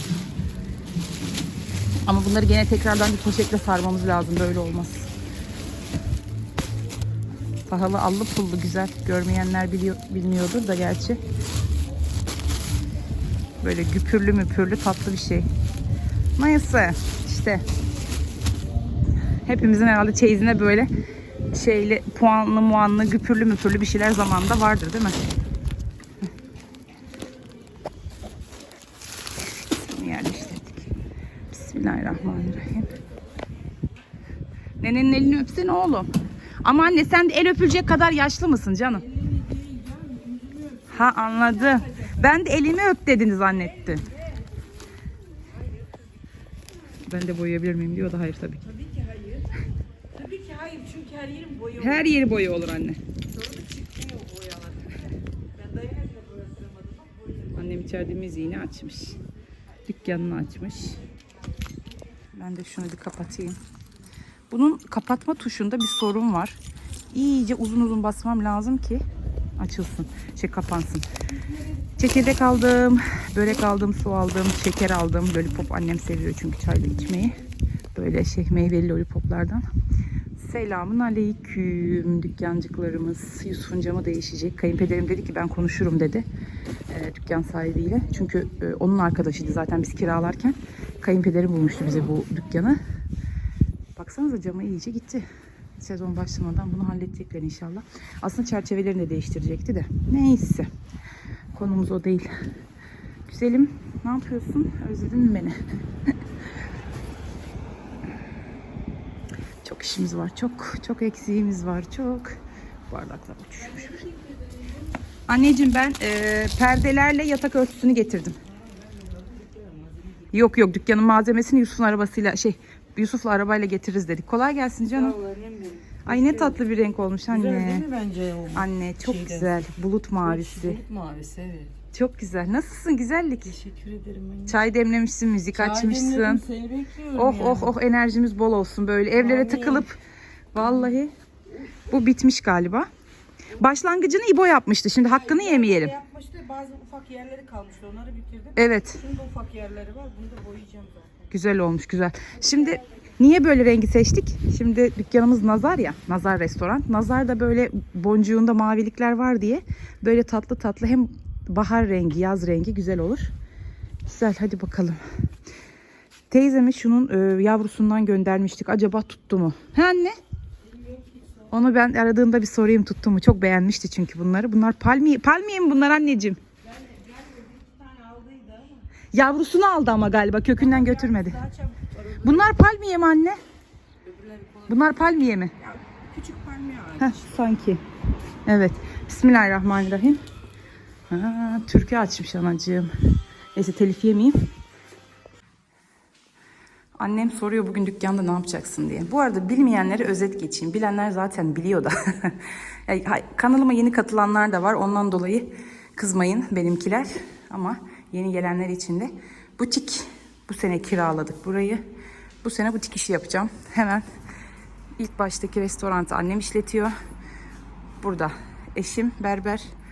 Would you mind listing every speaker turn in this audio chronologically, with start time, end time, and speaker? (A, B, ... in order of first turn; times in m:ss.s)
0:02.0-0:05.1 A
0:07.7-0:11.2 A
0:13.6-0:15.5 A
0:16.4-0:17.6 A
0:19.4-0:20.9 A
0:21.5-0:25.2 A
0:29.5-0:30.9 A
0:31.5-0:32.9 A
0:32.3-0:32.6 B
0:34.8-0:36.1 A
0:36.6-0:39.0 A
0:38.9-0:42.3 B
0:40.9-0:44.0 A
0:43.6-0:44.6 B
0:45.2-0:46.3 B
0:47.0-0:48.6 A
0:48.6-0:49.6 B
0:50.1-0:52.2 B
0:51.8-0:53.0 A
0:53.2-0:57.8 B
0:57.5-0:59.2 A
0:59.9-1:01.0 A
1:02.3-1:03.6 A
1:04.5-1:06.6 A
1:07.1-1:09.0 A
1:09.6-1:11.1 A
1:11.3-1:12.7 B
1:12.0-1:17.4 A
1:13.7-1:13.9 B
1:17.9-1:19.6 A
1:20.4-1:26.3 A
1:26.9-1:32.8 A
1:33.9-1:35.2 A
1:35.8-1:40.7 A
1:41.5-1:42.3 A
1:43.3-1:46.1 A
1:49.6-1:52.4 A
1:52.9-1:54.0 A
1:53.6-1:55.0 B
1:55.3-1:58.4 A
1:58.4-2:00.3 B
2:00.3-2:05.2 A
2:04.9-2:06.7 B
2:06.0-2:07.9 A
2:07.3-2:09.7 B
2:08.5-2:10.8 A
2:10.2-2:11.7 B
2:11.9-2:13.6 A
2:13.4-2:14.6 B
2:14.4-2:16.4 A
2:15.5-2:17.8 B
2:17.1-2:20.0 A
2:19.2-2:19.9 B
2:20.5-2:21.1 A
2:20.6-2:20.9 B
2:21.9-2:22.9 A
2:23.6-2:25.9 A
2:25.0-2:31.3 B
2:28.6-2:29.0 A
2:31.3-2:43.3 A
2:32.4-2:33.0 B
2:44.0-2:45.0 A
2:46.3-2:50.2 A
2:50.6-2:51.6 B
2:51.5-2:56.4 A
2:56.6-2:58.9 B
2:59.1-3:01.4 A
3:00.6-3:02.6 B
3:02.2-3:03.4 A
3:04.0-3:05.0 B
3:04.7-3:05.5 A
3:05.6-3:07.4 B
3:07.0-3:07.8 A
3:08.4-3:10.2 A
3:11.1-3:14.5 A
3:17.0-3:31.8 A
3:32.4-3:34.0 A
3:35.0-3:36.9 A
3:38.0-3:39.7 A